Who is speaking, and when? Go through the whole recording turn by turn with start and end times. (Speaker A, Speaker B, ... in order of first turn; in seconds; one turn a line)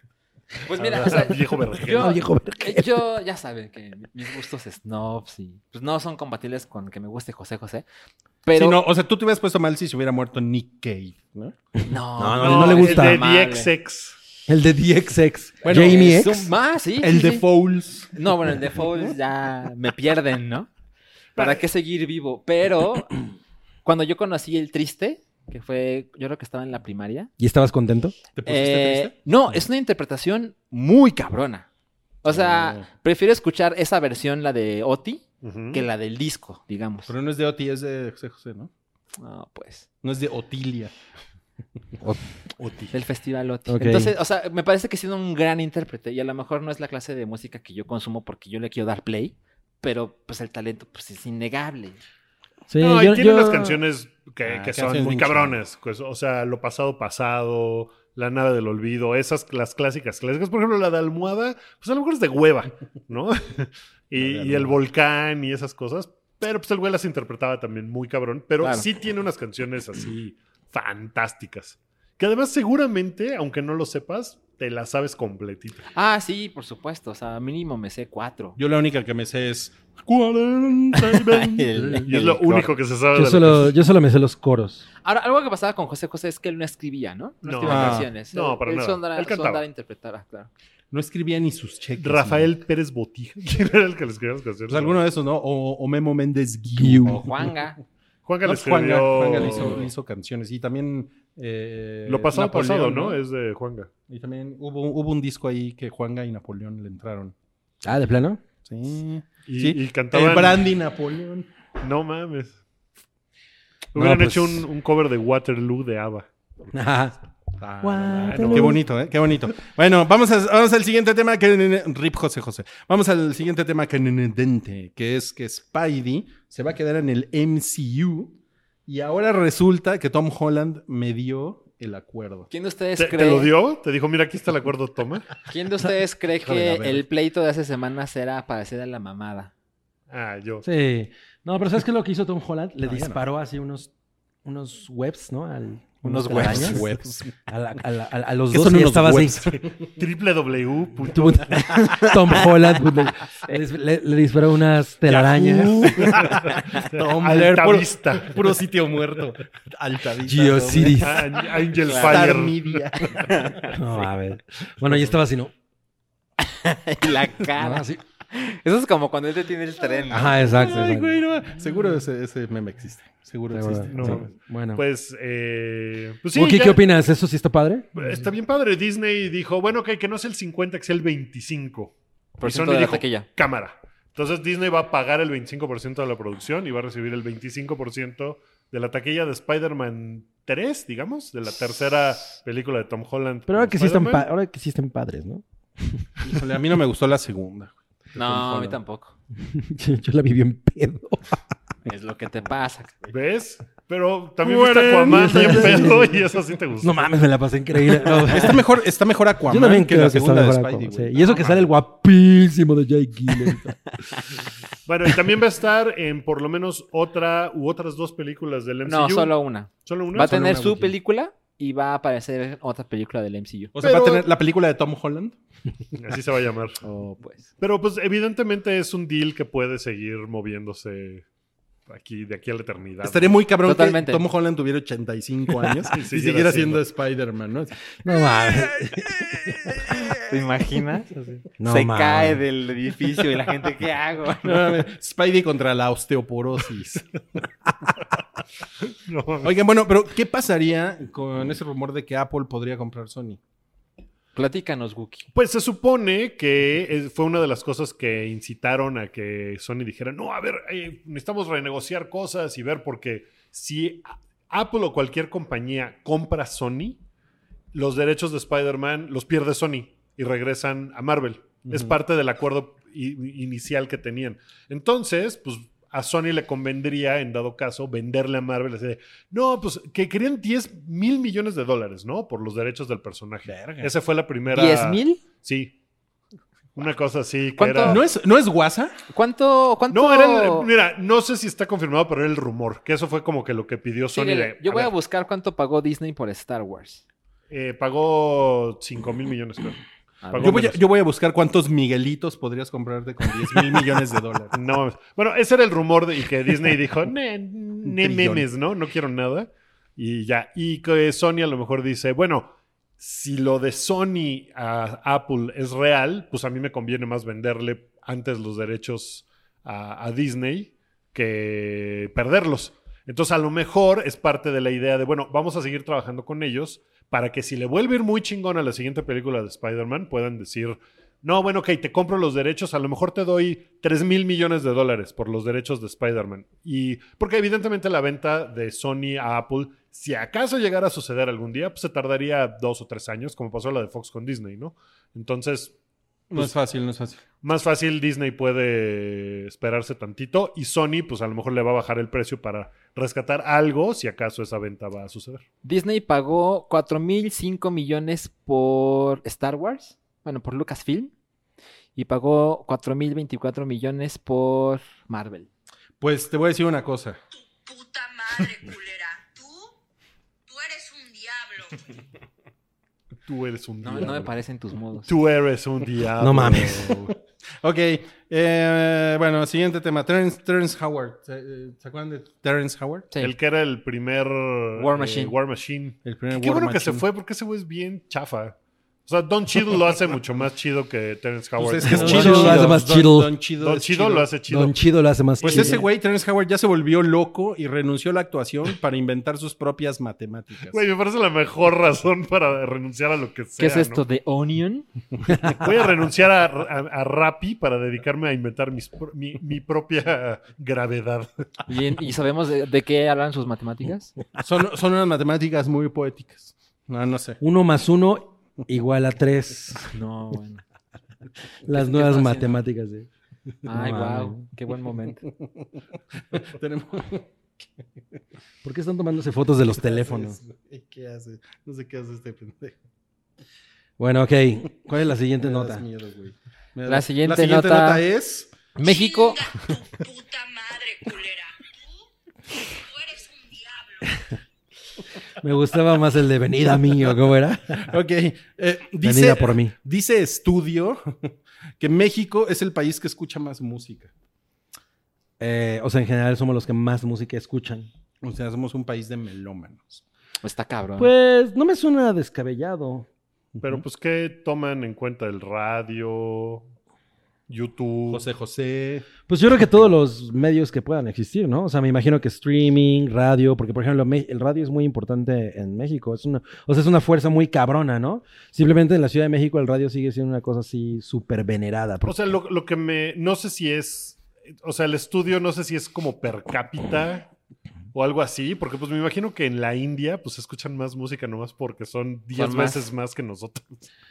Speaker A: 0.7-7.8
Speaker B: 0.8-2.2
Speaker C: 1.9-3.0
Speaker A: 8.4-8.8
Speaker D: 8.5-11.6
Speaker A: 11.8-13.7
Speaker C: 12.2-13.2
Speaker B: 12.4-14.2
Speaker C: 14.5-16.5
Speaker D: 15.6-16.5
Speaker A: 15.7-17.4
Speaker D: 17.0-18.1
Speaker A: 18.1-20.7
Speaker A: 21.4-23.1
Speaker A: 23.8-27.3
Speaker C: 27.4-28.1
Speaker D: 28.3-29.1
Speaker A: 28.4-31.7
Speaker A: 32.2-37.1
Speaker D: 32.3-32.9
Speaker B: 35.4-35.8
Speaker D: 37.1-38.7
Speaker A: 39.2-39.9
Speaker D: 40.0-40.9
Speaker D: 42.6-42.9
Speaker A: 42.9-52.0
Speaker C: 43.7-44.1
Speaker C: 52.7-53.8
Speaker B: 52.8-75.9
Speaker D: 54.4-55.5
Speaker D: 64.2-64.8
Speaker A: 68.6-68.9
Speaker A: 75.9-78.6
Speaker D: 78.6-82.0
Speaker A: 81.1-82.7
Speaker B: 82.0-83.7
Speaker C: 83.1-84.8
Speaker A: 85.0-90.5
Speaker B: 87.4-89.6
Speaker D: 87.6-88.1
Speaker D: 90.9-92.5
Speaker B: 92.0-95.0
Speaker D: 94.7-97.5
Speaker C: 96.7-97.2
Speaker A: 97.0-97.8
Speaker B: 98.2-99.9
Speaker D: 98.4-103.2
Speaker B: 102.0-103.9
Speaker D: 104.1-107.3
Speaker C: 107.8-108.4
Speaker D: 108.7-111.5
Speaker B: 109.5-110.7
Speaker B: 111.8-112.6
Speaker B: 113.9-116.2
Speaker C: 113.9-114.7
Speaker C: 116.7-117.2
Speaker D: 117.6-128.3
Speaker C: 117.8-118.8
Speaker B: 118.2-118.8
Speaker D: 128.9-132.5
Speaker A: 132.5-133.5
Speaker B: 133.0-135.3
Speaker A: 135.5-139.5
Speaker D: 136.4-137.1
Speaker B: 140.1-140.7
Speaker C: 140.6-143.9
Speaker D: 142.8-143.2
Speaker C: 144.4-146.9
Speaker A: 146.0-146.8
Speaker D: 146.3-147.3
Speaker C: 147.5-149.5
Speaker D: 148.5-149.9
Speaker B: 149.9-151.6
Speaker C: 151.1-156.3
Speaker A: 151.7-152.4
Speaker D: 155.1-161.2
Speaker B: 155.8-158.6
Speaker C: 160.2-161.3
Speaker B: 161.0-162.9
Speaker A: 161.8-162.3
Speaker D: 161.8-163.7
Speaker A: 163.2-163.8
Speaker C: 163.7-165.5
Speaker A: 166.4-170.8
Speaker C: 167.6-168.0
Speaker C: 170.1-171.2
Speaker D: 170.1-174.2
Speaker C: 173.5-174.8
Speaker B: 173.9-176.8
Speaker C: 176.3-177.9
Speaker B: 177.9-194.2
Speaker A: 182.4-183.3
Speaker C: 193.5-196.4
Speaker D: 196.2-198.8
Speaker A: 198.1-199.1
Speaker C: 199.4-201.4
Speaker A: 201.8-203.1
Speaker B: 203.1-207.1
Speaker D: 204.4-206.1
Speaker C: 205.1-206.1
Speaker C: 206.8-208.7
Speaker D: 208.2-211.6
Speaker C: 209.4-213.8
Speaker B: 214.8-220.3
Speaker A: 218.8-223.7
Speaker D: 220.2-220.9
Speaker D: 223.7-225.3
Speaker B: 223.8-224.3
Speaker B: 225.9-226.8
Speaker A: 226.8-227.4
Speaker B: 227.6-231.2
Speaker B: 231.9-233.3
Speaker D: 233.0-240.2
Speaker A: 233.6-234.2
Speaker B: 235.9-236.8
Speaker C: 238.0-239.8
Speaker A: 240.1-244.8
Speaker C: 241.6-242.4
Speaker D: 244.4-247.1
Speaker B: 249.0-249.5
Speaker D: 249.4-253.4
Speaker A: 254.3-255.3
Speaker B: 255.3-267.0
Speaker B: 267.7-285.7
Speaker D: 271.7-272.0
Speaker D: 283.5-283.9
Speaker A: 284.5-285.2
Speaker B: 286.7-288.0
Speaker A: 287.6-288.0
Speaker D: 287.8-289.0
Speaker A: 289.1-290.7
Speaker B: 289.9-294.9
Speaker A: 294.1-297.0
Speaker B: 297.5-300.8
Speaker A: 300.2-300.6
Speaker D: 300.4-304.5
Speaker B: 304.5-345.7
Speaker D: 307.8-308.4
Speaker D: 346.3-347.2
Speaker B: 347.4-355.4
Speaker A: 355.6-361.1
Speaker A: 361.9-365.5
Speaker D: 366.0-367.2
Speaker E: 367.3-369.7
Speaker E: 370.5-371.9
Speaker B: 373.3-374.3
Speaker A: 373.8-375.1
Speaker B: 375.1-377.1
Speaker C: 376.2-377.0
Speaker D: 377.6-383.1
Speaker B: 383.2-388.6
Speaker A: 384.8-385.3
Speaker D: 386.0-387.0
Speaker B: 389.1-392.7
Speaker D: 391.6-394.3
Speaker C: 391.9-393.4
Speaker A: 391.9-392.7
Speaker B: 393.6-394.8
Speaker C: 394.5-395.8
Speaker B: 395.4-395.8
Speaker D: 395.4-400.8
Speaker B: 400.7-404.0
Speaker A: 403.6-404.9
Speaker B: 405.4-411.4
Speaker A: 411.7-414.1
Speaker D: 414.4-417.4
Speaker C: 417.4-419.9
Speaker A: 419.9-420.6
Speaker C: 421.6-423.1
Speaker A: 421.7-422.6
Speaker A: 423.6-425.2
Speaker C: 423.6-424.4
Speaker D: 426.3-427.3
Speaker C: 428.6-430.4
Speaker D: 429.8-432.8
Speaker C: 434.0-435.8
Speaker D: 435.4-438.5
Speaker A: 436.9-438.0
Speaker A: 438.8-439.4
Speaker E: 438.8-442.0
Speaker E: 442.6-444.3
Speaker C: 445.4-447.9
Speaker D: 447.9-454.1
Speaker C: 449.0-449.7
Speaker C: 455.4-457.9
Speaker D: 458.2-460.0
Speaker A: 460.4-461.1
Speaker C: 461.0-463.1
Speaker B: 463.6-466.6
Speaker B: 467.5-468.2
Speaker D: 468.1-469.1
Speaker C: 469.3-482.1
Speaker B: 482.0-487.3
Speaker B: 487.9-493.8
Speaker A: 492.3-492.9